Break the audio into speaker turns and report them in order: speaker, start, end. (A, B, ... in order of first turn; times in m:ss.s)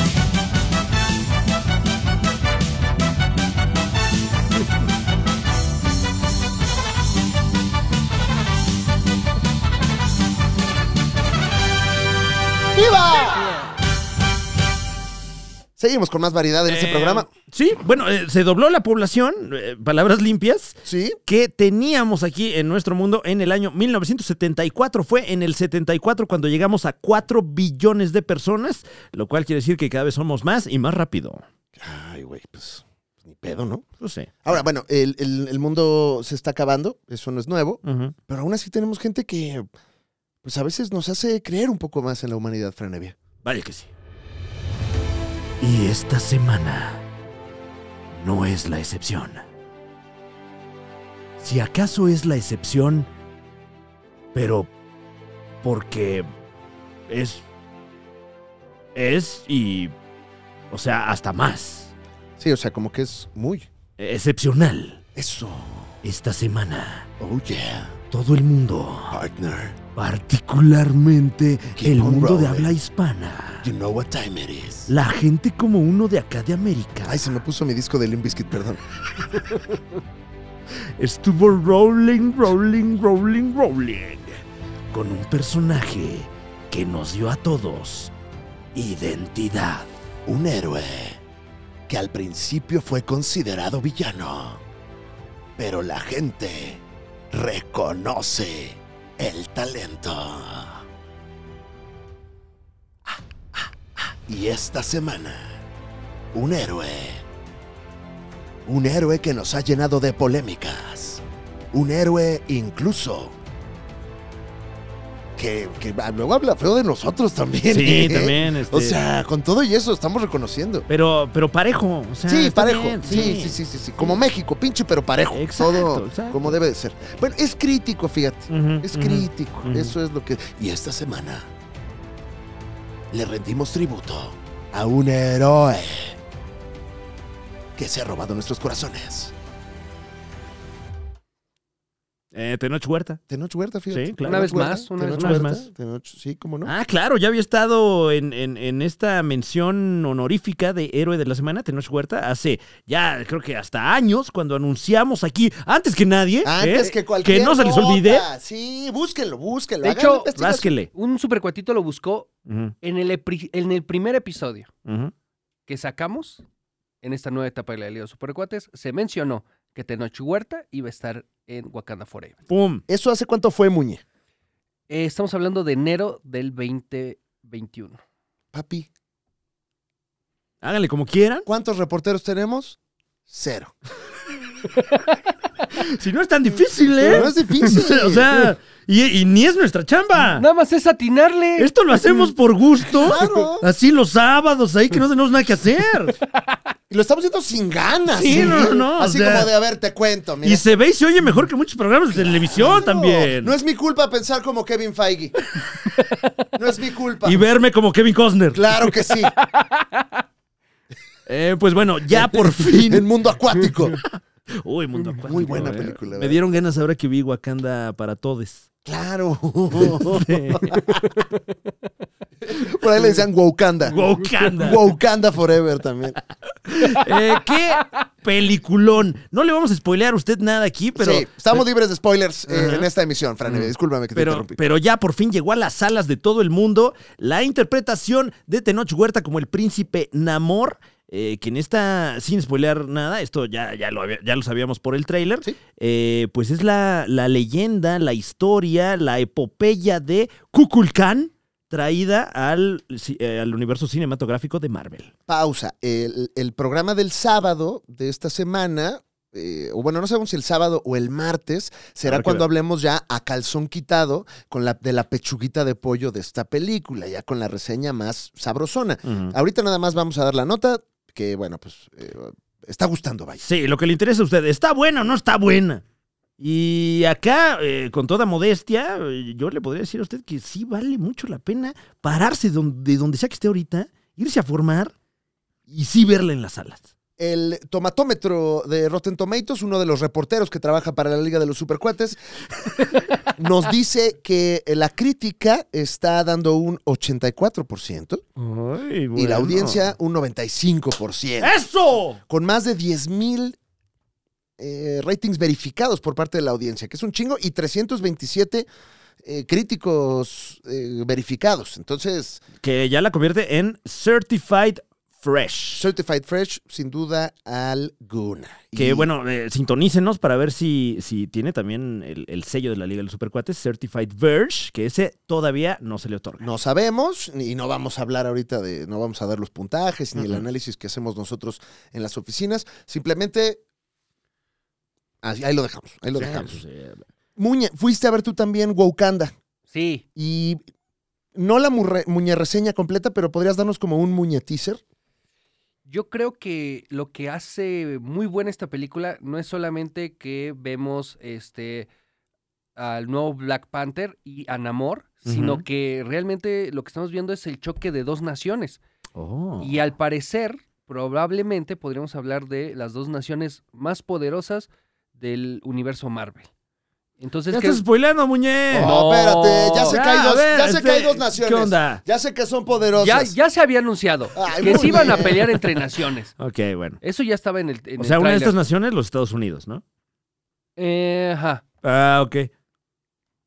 0:12.7-0:13.6 A
0:15.8-0:17.3 A
0:16.6-0:31.4 B
0:20.8-0:21.2 A
0:31.8-0:33.9 A
0:34.0-0:34.4 B
0:34.4-0:39.7 A
0:37.8-0:38.2 B
0:40.4-0:43.2 A
0:43.4-0:43.9 B
0:45.6-0:47.0 B
0:48.1-0:49.5 B
0:51.4-0:53.1 B
0:54.3-0:54.7 B
0:55.6-0:56.3 B
0:57.1-0:57.5 B
0:59.0-0:59.9 B
1:00.7-1:01.9 B
1:02.4-1:03.7 A
1:04.0-1:05.0 B
1:05.2-1:06.0 A
1:06.0-1:07.1 B
1:07.2-1:08.0 A
1:08.1-1:09.2 B
1:09.1-1:09.8 A
1:10.0-1:13.7 B
1:11.8-1:12.8 A
1:13.6-1:14.9 A
1:14.9-1:17.2 B
1:17.0-1:18.8 A
1:21.0-1:24.4 B
1:24.9-1:28.1 B
1:28.7-1:29.9 B
1:30.3-1:31.2 A
1:31.9-1:34.6 A
1:35.6-1:40.8 A
1:43.1-1:45.6 A
1:46.3-1:47.2 A
1:48.7-1:53.4 A
1:55.4-2:00.9 A
1:57.7-1:59.0 B
2:00.9-2:04.2 B
2:02.3-2:11.5 A
2:05.3-2:06.6 B
2:08.5-2:10.0 B
2:13.1-2:16.2 A
2:17.8-2:19.3 A
2:22.3-2:23.2 B
2:23.3-2:26.7 A
2:23.9-2:25.7 B
2:24.2-2:25.4 C
2:26.6-2:38.3 B
2:36.4-2:40.7 A
2:39.8-2:40.3 C
2:40.4-2:40.9 B
2:40.9-2:42.3 C
2:42.5-2:42.8 B
2:42.8-2:44.7 C
2:44.9-2:45.1 B
2:45.7-2:46.4 C
2:47.0-2:52.4 C
2:52.5-2:52.8 B
2:52.9-2:54.0 A
2:54.9-2:58.0 C
2:58.5-2:58.9 A
3:00.6-3:01.5 B
3:01.5-3:03.7 A
3:04.8-3:05.2 C
3:05.7-3:10.5 B
3:07.0-3:07.6 C
3:07.0-3:08.3 A
3:10.2-3:11.7 C
3:11.6-3:16.2 B
3:12.9-3:13.7 A
3:12.9-3:13.4 C
3:16.9-3:20.7 A
3:18.1-3:19.5 B
3:20.4-3:23.5 B
3:22.1-3:25.4 A
3:26.6-3:27.4 A
3:27.2-3:28.6 B
3:28.5-3:29.3 A
3:29.4-3:30.2 C
3:31.3-3:33.1 B
3:32.1-3:34.0 A
3:34.1-3:38.7 B
3:35.2-3:36.4 A
3:38.8-3:40.9 A
3:39.8-3:40.8 B
3:42.5-3:44.0 A
3:43.9-3:44.9 B
3:44.6-3:46.2 A
3:46.7-3:51.6 B
3:51.0-3:54.6 A
3:52.5-3:52.9 B
3:53.4-4:15.1 B
4:15.3-4:33.4 A
4:22.1-4:22.5 B
4:29.0-4:29.4 B
4:33.4-4:35.8 B
4:36.4-4:44.9 B
4:45.7-4:46.9 B
4:47.2-4:52.2 A
4:53.4-4:58.2 A
4:58.4-4:59.8 B
4:59.2-5:01.6 A
5:01.4-5:02.2 B
5:02.2-5:03.6 A
5:04.6-5:08.7 A
5:09.2-5:12.4 A
5:12.6-5:15.9 B
5:15.8-5:19.1 A
5:18.8-5:26.5 B
5:26.4-5:33.6 A
5:30.2-5:30.4 B
5:35.2-5:36.6 A
5:36.1-5:37.1 B
5:37.4-5:39.3 A
5:39.7-5:40.0 C
5:40.2-5:40.6 A
5:41.4-5:44.8 A
5:45.9-5:51.9 C
5:52.8-5:58.8 C
5:55.3-5:55.6 B
5:59.2-5:59.8 B
5:59.6-6:06.5 C
6:07.2-6:07.8 C
6:07.5-6:09.0 B
6:08.7-6:13.4 A
6:08.7-6:10.0 C
6:09.9-6:12.0 B
6:13.0-6:16.3 C
6:14.3-6:15.6 A
6:14.6-6:15.4 B
6:16.4-6:17.0 B
6:17.0-6:18.6 C
6:18.0-6:19.8 B
6:20.8-6:21.6 C
6:21.8-6:22.5 B